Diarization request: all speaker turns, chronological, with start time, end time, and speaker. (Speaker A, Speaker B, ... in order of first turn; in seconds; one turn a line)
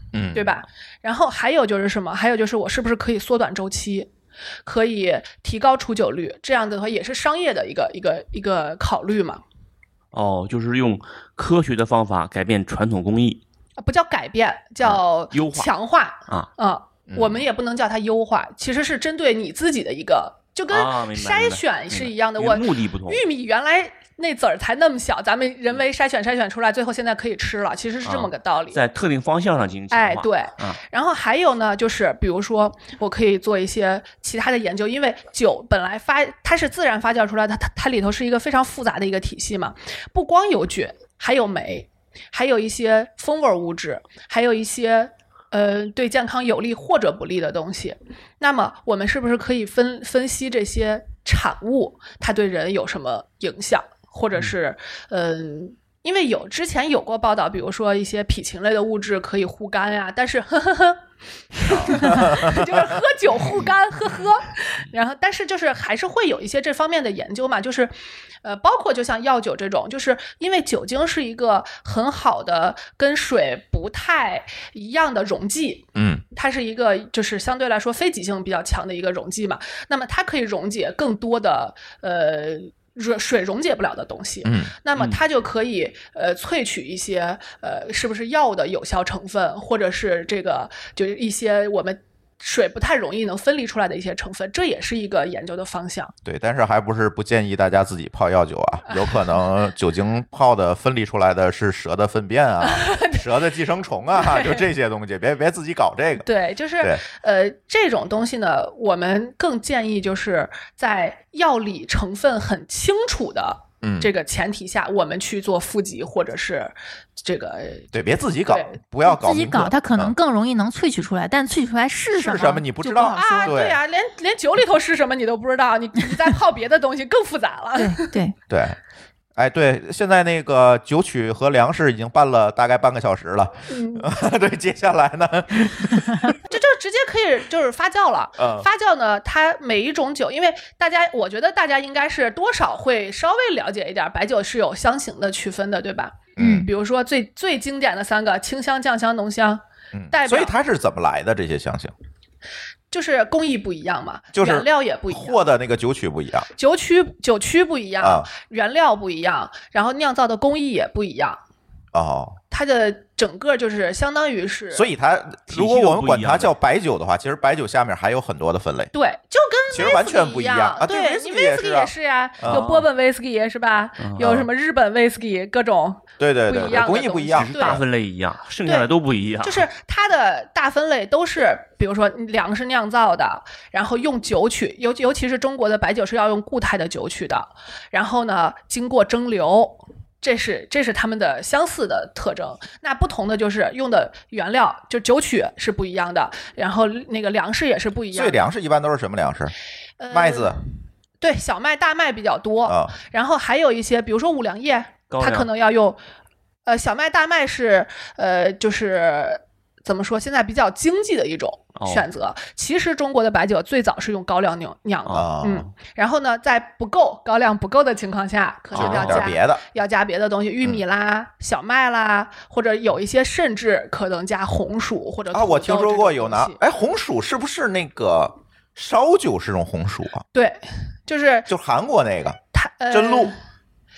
Speaker A: 0.1-0.6
Speaker B: 0.3-4.1
Speaker B: 4.6-9.4
Speaker C: 10.1-13.4
Speaker B: 13.8-28.8
Speaker C: 14.8-15.7
Speaker A: 17.1-17.4
Speaker C: 20.7-23.2
Speaker C: 28.0-30.8
Speaker B: 29.9-61.0
Speaker B: 61.6-96.1
Speaker A: 61.6-62.9
Speaker A: 76.0-76.2
Speaker A: 84.4-84.7
Speaker C: 85.0-85.2
Speaker A: 96.2-106.3
Speaker B: 98.9-99.2
Speaker B: 102.6-103.2
Speaker B: 104.2-104.6
Speaker B: 106.2-117.9
Speaker A: 113.8-114.1
Speaker A: 117.9-120.1
Speaker B: 118.5-118.8
Speaker D: 119.0-123.5
Speaker A: 122.1-123.8
Speaker B: 123.0-128.1
Speaker D: 127.8-128.3
Speaker A: 128.5-128.8
Speaker A: 129.3-136.4
Speaker B: 133.7-134.1
Speaker B: 136.4-150.5
Speaker A: 138.4-138.7
Speaker A: 146.4-146.7
Speaker D: 146.4-146.7
Speaker A: 149.9-151.9
Speaker B: 152.9-155.4
Speaker A: 154.3-156.5
Speaker B: 156.6-161.4
Speaker A: 158.0-158.3
Speaker A: 161.9-162.4
Speaker B: 162.5-164.9
Speaker A: 164.7-168.9
Speaker C: 165.5-166.5
Speaker B: 168.9-177.8
Speaker A: 169.7-172.7
Speaker C: 172.5-172.9
Speaker C: 174.0-174.4
Speaker A: 174.2-174.5
Speaker A: 176.2-177.8
Speaker C: 176.6-179.7
Speaker B: 179.4-198.4
Speaker A: 198.1-199.5
Speaker B: 200.0-200.6
Speaker A: 200.1-200.6
Speaker B: 201.2-206.0
Speaker A: 202.6-203.0
Speaker C: 205.1-205.5
Speaker B: 206.7-226.6
Speaker C: 211.8-212.1
Speaker A: 215.1-215.7
Speaker C: 218.7-219.3
Speaker A: 218.7-219.6
Speaker A: 225.3-230.2
Speaker B: 230.3-231.5
Speaker A: 231.5-232.4
Speaker B: 232.5-233.4
Speaker A: 232.9-233.3